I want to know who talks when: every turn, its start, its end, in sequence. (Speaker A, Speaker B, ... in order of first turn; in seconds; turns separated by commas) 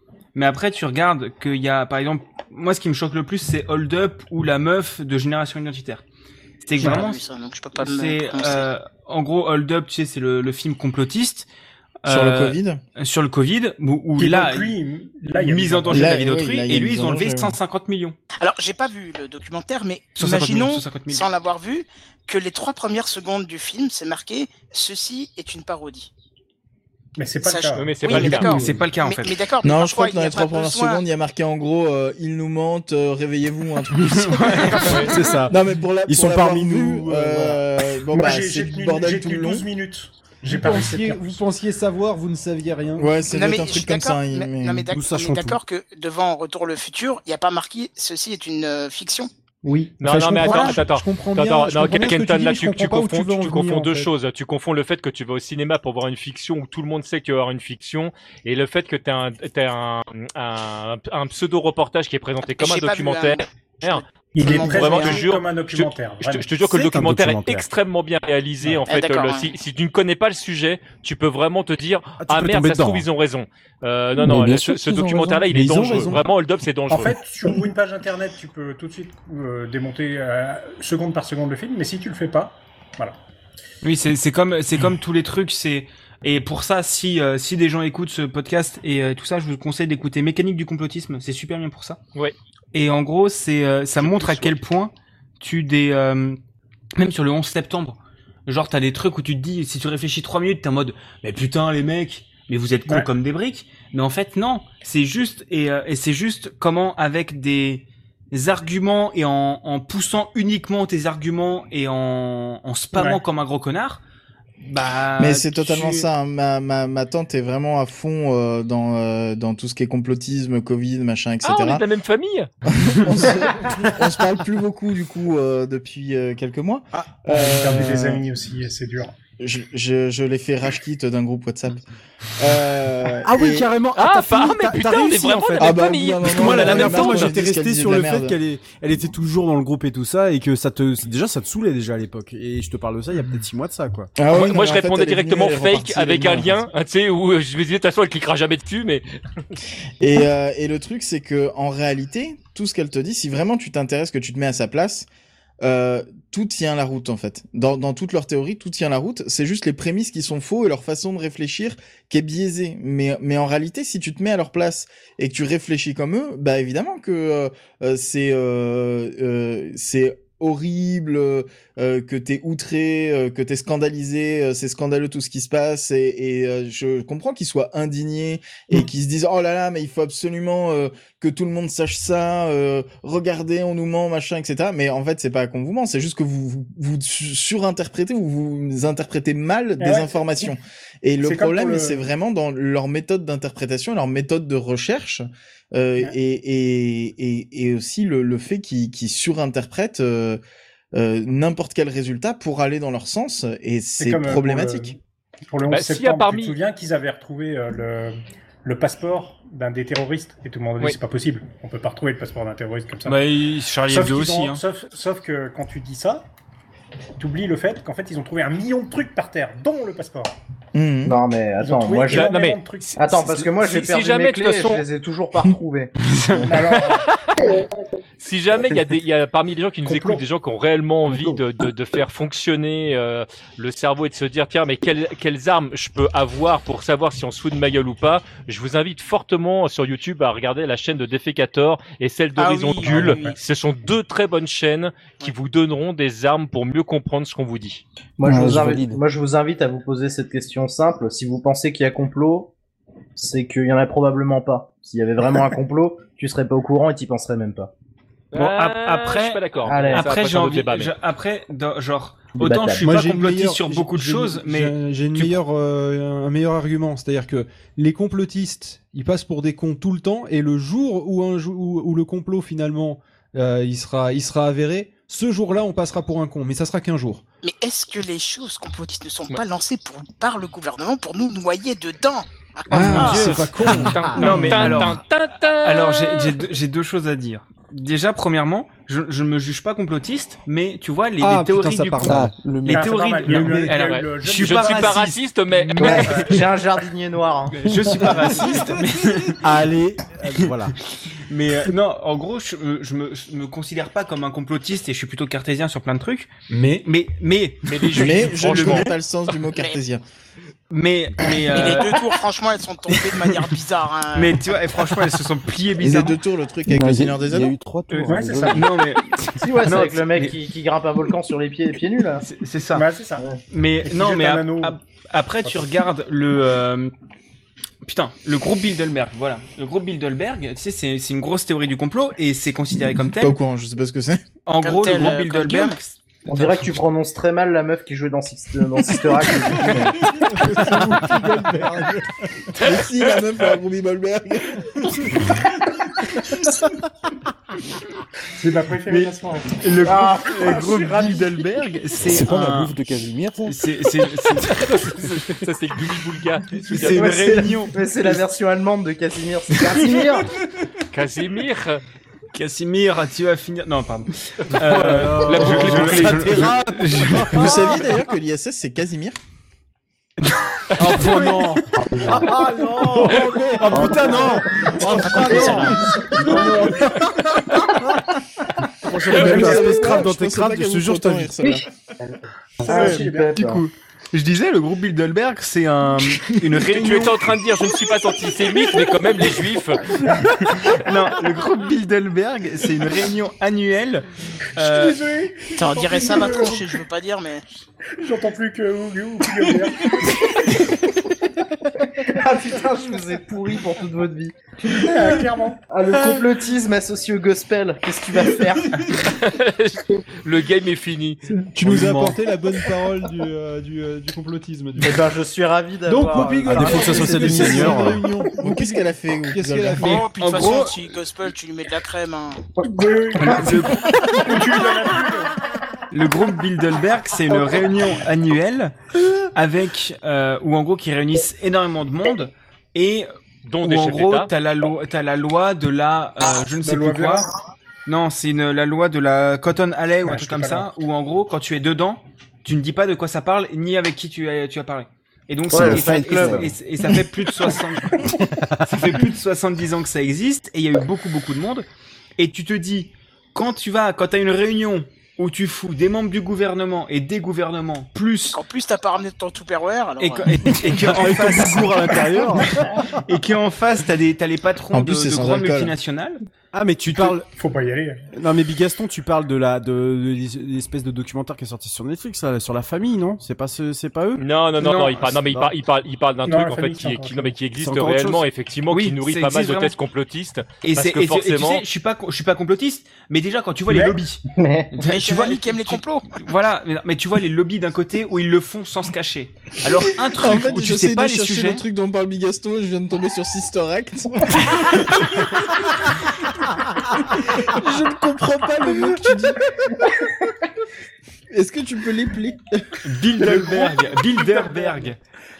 Speaker A: 0.3-6.0, Speaker A: 6.6-7.2, Speaker B: 6.8-8.7, Speaker A: 7.8-11.5, Speaker A: 12.0-14.8, Speaker C: 12.1-12.8, Speaker D: 14.2-16.2, Speaker A: 15.3-18.2, Speaker C: 15.9-17.6, Speaker B: 18.4-26.1, Speaker A: 20.2-21.3, Speaker D: 27.2-28.1, Speaker B: 27.4-31.0, Speaker E: 27.8-28.6, Speaker A: 28.2-29.3, Speaker C: 29.6-39.7, Speaker A: 34.0-35.2, Speaker E: 34.8-35.1, Speaker F: 35.0-37.6, Speaker D: 38.1-41.4, Speaker G: 40.5-43.2, Speaker C: 43.0-44.9, Speaker B: 43.3-49.3, Speaker F: 44.9-45.6, Speaker G: 49.6-54.1, Speaker E: 50.0-77.2, Speaker A: 50.4-50.7, Speaker B: 62.6-65.3, Speaker D: 64.3-66.5, Speaker F: 66.6-67.7, Speaker B: 68.9-69.5, Speaker F: 72.2-73.1, Speaker H: 74.2-75.4, Speaker G: 75.5-76.2, Speaker F: 75.5-76.0, Speaker D: 76.9-83.2, Speaker A: 83.8-92.0, Speaker A: 92.7-96.4, Speaker E: 94.0-94.5, Speaker A: 97.0-114.0, Speaker D: 112.9-113.2, Speaker A: 114.6-116.1, Speaker C: 115.2-121.8, Speaker E: 121.4-122.5, Speaker C: 122.7-128.2, Speaker D: 127.3-129.2, Speaker C: 129.4-131.8, Speaker C: 132.4-133.7, Speaker F: 133.3-144.1, Speaker G: 133.4-135.5, Speaker E: 133.9-137.3, Speaker C: 135.6-138.4, Speaker C: 144.2-146.7, Speaker E: 144.3-149.1, Speaker C: 150.0-155.1, Speaker C: 155.6-200.4, Speaker D: 189.8-190.5, Speaker D: 191.2-192.1, Speaker C: 200.9-205.0, Speaker D: 204.0-213.3, Speaker E: 205.7-206.6, Speaker A: 213.1-214.6, Speaker D: 213.9-216.3, Speaker D: 217.2-220.3, Speaker C: 220.7-221.2, Speaker I: 221.1-222.4, Speaker D: 221.6-223.0, Speaker E: 222.1-224.8, Speaker I: 222.9-226.6, Speaker A: 226.1-226.5, Speaker D: 226.5-227.1, Speaker E: 226.9-227.2, Speaker E: 228.2-247.8, Speaker D: 229.9-230.2, Speaker B: 242.4-243.4, Speaker I: 248.2-252.5, Speaker H: 248.2-249.0, Speaker I: 253.2-257.7, Speaker E: 258.3-260.9, Speaker A: 258.3-265.4, Speaker I: 259.6-260.1, Speaker I: 262.4-262.9, Speaker G: 262.8-277.2, Speaker B: 277.4-283.5, Speaker G: 282.7-284.9, Speaker A: 282.8-285.0, Speaker E: 283.0-286.4, Speaker A: 285.6-296.4, Speaker G: 291.2-292.4, Speaker H: 292.1-292.9, Speaker D: 292.7-295.0, Speaker G: 293.3-293.7, Speaker E: 293.7-296.1, Speaker I: 295.8-298.3, Speaker D: 296.0-296.4, Speaker A: 297.5-299.4, Speaker F: 299.4-300.8, Speaker A: 301.2-308.9, Speaker E: 307.7-308.9, Speaker C: 307.9-310.0, Speaker A: 310.7-312.1, Speaker B: 311.5-314.4, Speaker A: 312.9-313.5, Speaker A: 314.1-316.2, Speaker C: 315.8-317.5, Speaker H: 316.6-318.7, Speaker A: 317.9-320.4, Speaker D: 318.1-318.7, Speaker I: 319.4-322.2, Speaker A: 322.2-322.9, Speaker D: 322.7-323.3, Speaker A: 323.5-326.9, Speaker D: 323.8-324.8, Speaker A: 327.9-333.4, Speaker C: 333.2-334.2, Speaker A: 334.5-336.7, Speaker B: 334.6-335.8, Speaker I: 336.3-340.1, Speaker G: 340.2-342.1, Speaker C: 342.6-345.2, Speaker D: 348.4-349.6, Speaker A: 348.9-352.8, Speaker I: 349.8-351.1, Speaker H: 352.0-353.6, Speaker A: 353.5-355.0, Speaker E: 354.5-357.1, Speaker A: 356.7-358.3, Speaker I: 356.8-360.3, Speaker A: 359.5-360.2, Speaker E: 360.9-361.8, Speaker A: 362.3-367.8, Speaker E: 364.6-366.5, Speaker F: 364.7-367.5, Speaker C: 367.3-369.2, Speaker F: 370.8-376.9, Speaker A: 370.8-371.4, Speaker I: 372.1-372.9, Speaker G: 373.6-375.0, Speaker H: 373.7-374.3, Speaker I: 373.8-376.8, Speaker H: 374.9-375.5, Speaker F: 378.9-381.3, Speaker C: 379.1-381.6, Speaker I: 381.4-383.6, Speaker A: 382.6-387.3, Speaker D: 382.7-383.4, Speaker E: 386.7-389.8, Speaker A: 390.5-395.0, Speaker D: 394.6-396.6, Speaker B: 395.6-397.4, Speaker D: 398.0-400.3, Speaker I: 402.0-408.8, Speaker D: 404.7-405.6, Speaker E: 409.0-411.2, Speaker G: 411.5-415.1, Speaker F: 411.6-412.2, Speaker I: 414.8-418.3, Speaker G: 415.9-420.1, Speaker F: 416.4-418.0, Speaker C: 418.4-419.9, Speaker B: 419.8-422.5, Speaker A: 419.8-420.8, Speaker D: 422.6-425.4, Speaker A: 423.2-424.4, Speaker I: 423.2-423.5, Speaker A: 425.9-433.1, Speaker E: 433.5-434.3, Speaker A: 433.6-437.3, Speaker D: 436.6-437.3, Speaker A: 437.9-448.0, Speaker D: 440.1-440.7, Speaker I: 445.5-446.9, Speaker H: 445.5-446.5, Speaker D: 447.9-448.2, Speaker A: 448.7-451.7, Speaker A: 452.2-458.4, Speaker B: 458.3-460.3, Speaker A: 460.0-466.2, Speaker F: 460.8-462.7, Speaker C: 464.7-465.7, Speaker F: 466.5-467.3, Speaker D: 467.1-468.0, Speaker F: 468.1-474.2, Speaker E: 474.2-481.6, Speaker A: 474.6-475.1, Speaker F: 475.2-475.6, Speaker D: 476.2-477.4, Speaker F: 477.6-478.3, Speaker A: 478.7-479.8, Speaker A: 480.6-484.2, Speaker D: 483.7-484.0, Speaker I: 484.3-484.8, Speaker A: 484.7-491.6, Speaker B: 484.8-486.1, Speaker C: 490.0-495.4, Speaker C: 497.5-499.9, Speaker C: 501.3-502.8, Speaker A: 502.8-505.0, Speaker D: 503.2-504.7